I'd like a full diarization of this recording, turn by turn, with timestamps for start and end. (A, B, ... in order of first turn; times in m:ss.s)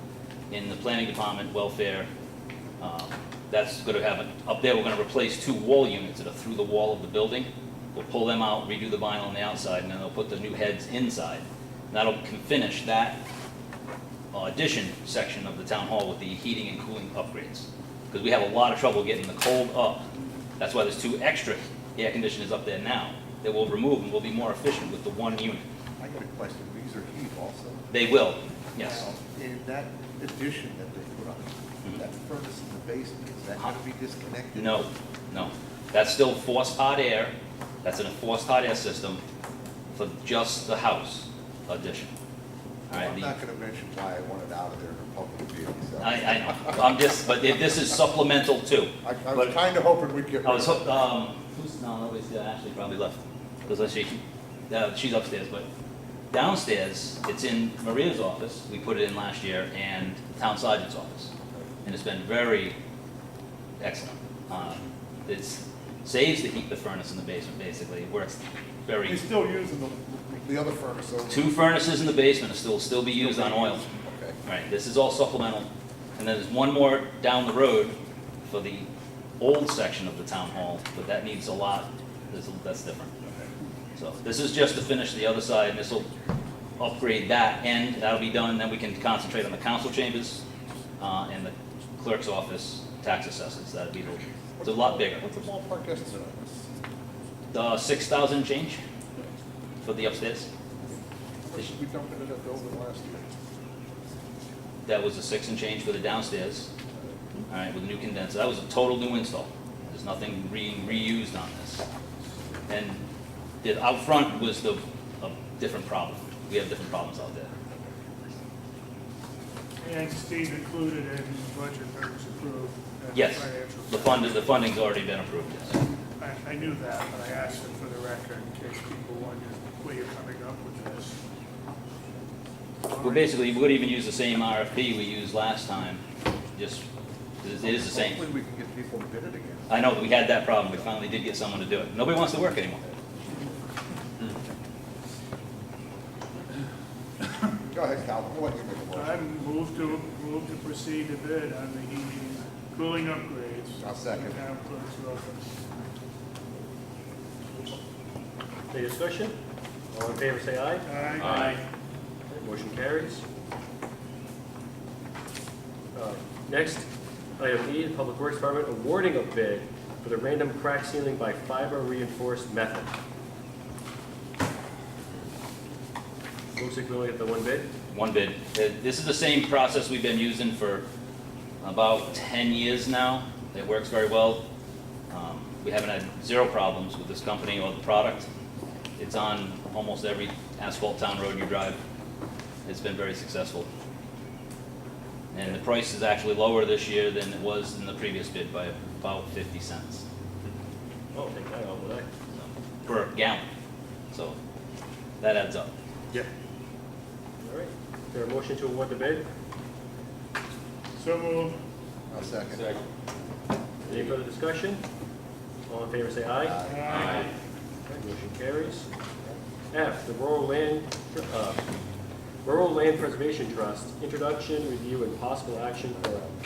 0:00.5-0:02.1 A
0:02.8-0:13.2 A
0:14.3-0:20.0 A
0:20.6-0:25.6 A
0:26.0-0:27.9 B
0:27.9-0:29.1 A
0:28.8-0:34.8 B
0:34.5-0:39.2 A
0:39.9-0:42.1 A
0:42.9-0:43.3 A
0:42.9-0:46.8 B
0:46.0-0:49.5 A
0:49.0-0:50.9 B
0:50.4-0:55.7 A
0:56.3-1:01.3 A
1:01.8-1:02.8 A
1:03.8-1:09.2 A
1:09.0-1:11.5 B
1:11.3-1:13.8 A
1:13.2-1:14.4 B
1:14.4-1:18.9 A
1:19.4-1:23.1 A
1:24.0-1:26.0 A
1:26.8-1:30.4 A
1:31.0-1:35.2 A
1:34.6-1:36.7 B
1:37.5-1:38.8 A
1:39.8-1:40.5 A
1:41.4-1:43.3 B
1:44.8-1:46.7 A
1:47.5-1:51.8 A
1:52.7-1:53.0 A
1:53.6-1:57.5 A
1:59.8-2:04.5 C
2:03.1-2:05.8 A
2:05.7-2:11.2 C
2:12.8-2:13.4 C
2:13.0-2:16.0 A
2:16.5-2:16.8 A
2:17.4-2:18.2 A
2:17.6-2:19.7 B
2:19.7-2:22.9 A
2:27.6-2:29.2 B
2:28.9-2:35.6 C
2:33.8-2:34.4 B
2:38.7-2:39.4 D
2:39.9-2:41.6 D
2:40.8-2:41.6 C
2:42.3-2:43.2 D
2:45.9-2:46.9 D
2:47.4-2:52.9 D
2:56.5-2:57.7 D
2:57.9-3:00.8 A
3:01.6-3:04.4 A
3:05.1-3:08.3 A
3:09.0-3:11.8 A
3:12.6-3:13.7 A
3:15.3-3:20.0 A
3:21.1-3:22.1 D
3:22.3-3:23.4 A
3:24.1-3:24.4 A
3:25.2-3:25.7 A
3:27.4-3:29.3 D
3:31.0-3:31.6 C
3:32.1-3:32.7 B
3:33.8-3:34.8 D
3:35.7-3:36.6 D
3:36.4-3:37.3 B
3:36.6-3:37.3 C
3:37.9-3:38.9 D
3:39.7-3:41.6 D
3:42.4-3:46.3 D
3:46.0-3:46.3 B